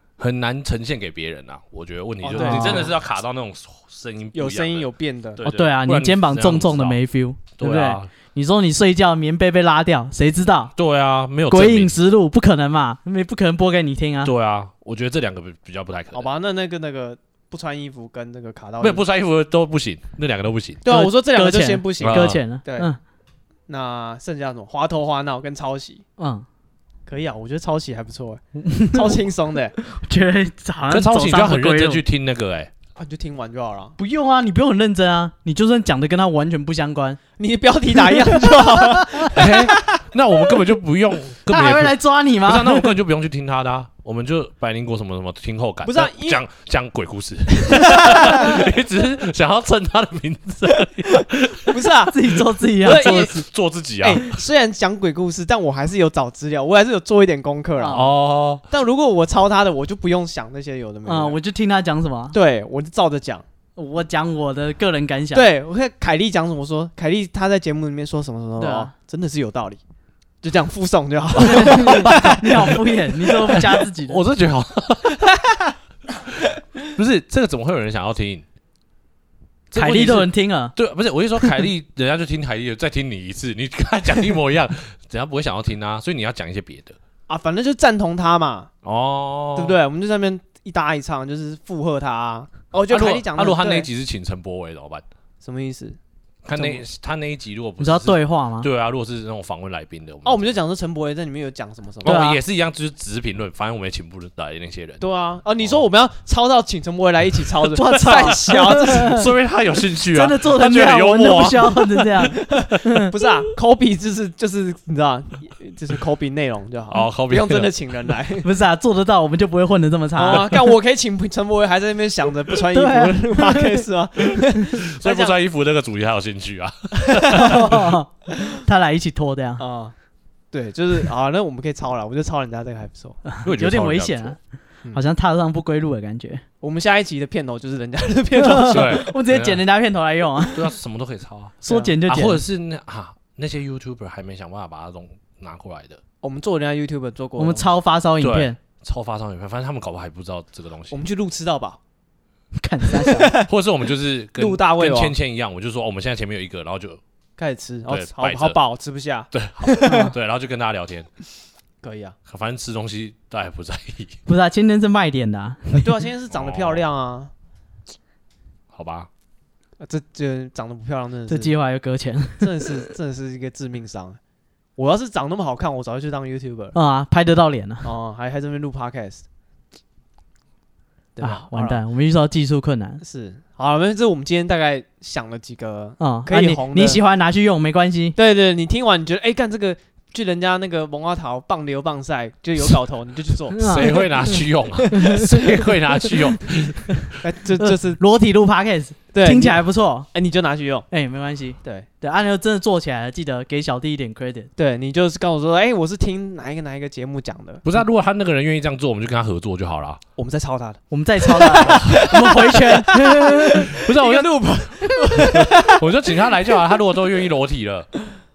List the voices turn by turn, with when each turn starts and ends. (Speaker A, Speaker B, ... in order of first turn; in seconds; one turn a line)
Speaker A: 0.2-7.0
Speaker B: 2.2-2.9
Speaker C: 2.4-2.9
Speaker B: 4.3-5.4
Speaker C: 5.4-10.7
Speaker A: 7.6-8.1
Speaker A: 10.8-11.9
Speaker C: 11.5-14.3
Speaker A: 14.2-16.3
Speaker B: 16.1-19.0
Speaker A: 18.8-20.8
Speaker B: 20.8-22.9
Speaker C: 20.9-23.0
Speaker A: 22.0-22.4
Speaker B: 23.7-26.0
Speaker C: 26.2-26.4
Speaker B: 27.1-29.7
Speaker C: 28.6-29.2
Speaker C: 29.8-32.0
Speaker A: 30.9-32.7
Speaker B: 33.0-34.0
Speaker C: 34.0-37.2
Speaker B: 37.4-39.7
Speaker C: 38.0-39.3
Speaker A: 39.3-51.8
Speaker C: 41.5-42.9
Speaker B: 45.8-46.4
Speaker B: 47.6-48.6
Speaker B: 51.2-53.4
Speaker C: 52.1-53.4
Speaker A: 52.9-54.3
Speaker B: 54.0-58.1
Speaker C: 57.8-58.1
Speaker A: 57.9-58.6
Speaker B: 58.7-61.4
Speaker C: 61.0-62.4
Speaker B: 62.3-63.4
Speaker C: 63.8-65.5
Speaker B: 65.3-69.8
Speaker C: 68.6-68.9
Speaker B: 70.4-72.7
Speaker A: 71.4-75.3
Speaker C: 71.4-74.2
Speaker A: 76.9-78.4
Speaker A: 79.7-87.0
Speaker C: 79.7-80.7
Speaker B: 87.3-88.7
Speaker A: 88.8-89.8
Speaker B: 89.5-93.9
Speaker A: 92.9-95.0
Speaker B: 95.4-96.0
Speaker A: 96.4-100.5
Speaker B: 96.5-96.8
Speaker C: 97.8-98.7
Speaker B: 100.2-102.2
Speaker A: 102.0-105.0
Speaker C: 102.0-102.4
Speaker B: 105.0-109.3
Speaker C: 107.7-109.3
Speaker A: 108.0-112.3
Speaker C: 110.1-113.1
Speaker B: 112.5-118.5
Speaker A: 116.9-118.1
Speaker C: 118.4-120.6
Speaker B: 120.2-125.4
Speaker C: 122.7-123.8
Speaker A: 124.9-127.9
Speaker B: 127.0-127.6
Speaker C: 127.3-129.6
Speaker B: 129.6-129.9
Speaker B: 130.5-133.2
Speaker C: 133.3-134.4
Speaker A: 133.4-134.4
Speaker C: 134.9-136.4
Speaker B: 136.6-139.1
Speaker C: 138.4-140.7
Speaker A: 138.7-139.6
Speaker A: 140.5-146.0
Speaker C: 141.6-142.4
Speaker B: 141.6-141.9
Speaker B: 146.2-147.7
Speaker C: 147.4-148.6
Speaker A: 148.2-151.0
Speaker B: 150.9-151.8
Speaker C: 152.6-153.3
Speaker B: 152.9-153.5
Speaker A: 153.4-157.0
Speaker B: 154.4-155.1
Speaker B: 157.4-160.1
Speaker A: 157.9-158.6
Speaker A: 159.3-161.1
Speaker C: 159.8-160.1
Speaker B: 161.8-162.2
Speaker A: 162.3-164.2
Speaker C: 164.3-165.9
Speaker B: 165.7-167.3
Speaker A: 166.3-166.8
Speaker A: 168.7-169.1
Speaker B: 169.8-171.5
Speaker C: 171.3-172.6
Speaker B: 172.4-174.2
Speaker B: 174.8-176.8
Speaker C: 176.7-177.9
Speaker B: 177.8-179.2
Speaker B: 181.2-181.8
Speaker C: 181.2-183.0
Speaker B: 183.0-187.0
Speaker C: 186.0-188.2
Speaker B: 188.2-195.3
Speaker C: 193.5-194.4
Speaker A: 193.6-197.1
Speaker C: 194.9-195.3
Speaker B: 197.2-198.0
Speaker C: 197.6-200.1
Speaker B: 199.1-200.9
Speaker C: 200.9-204.5
Speaker B: 204.6-207.6
Speaker A: 207.6-210.0
Speaker B: 210.2-216.6
Speaker C: 210.9-213.7
Speaker A: 211.6-212.5
Speaker A: 213.7-214.5
Speaker A: 215.2-217.9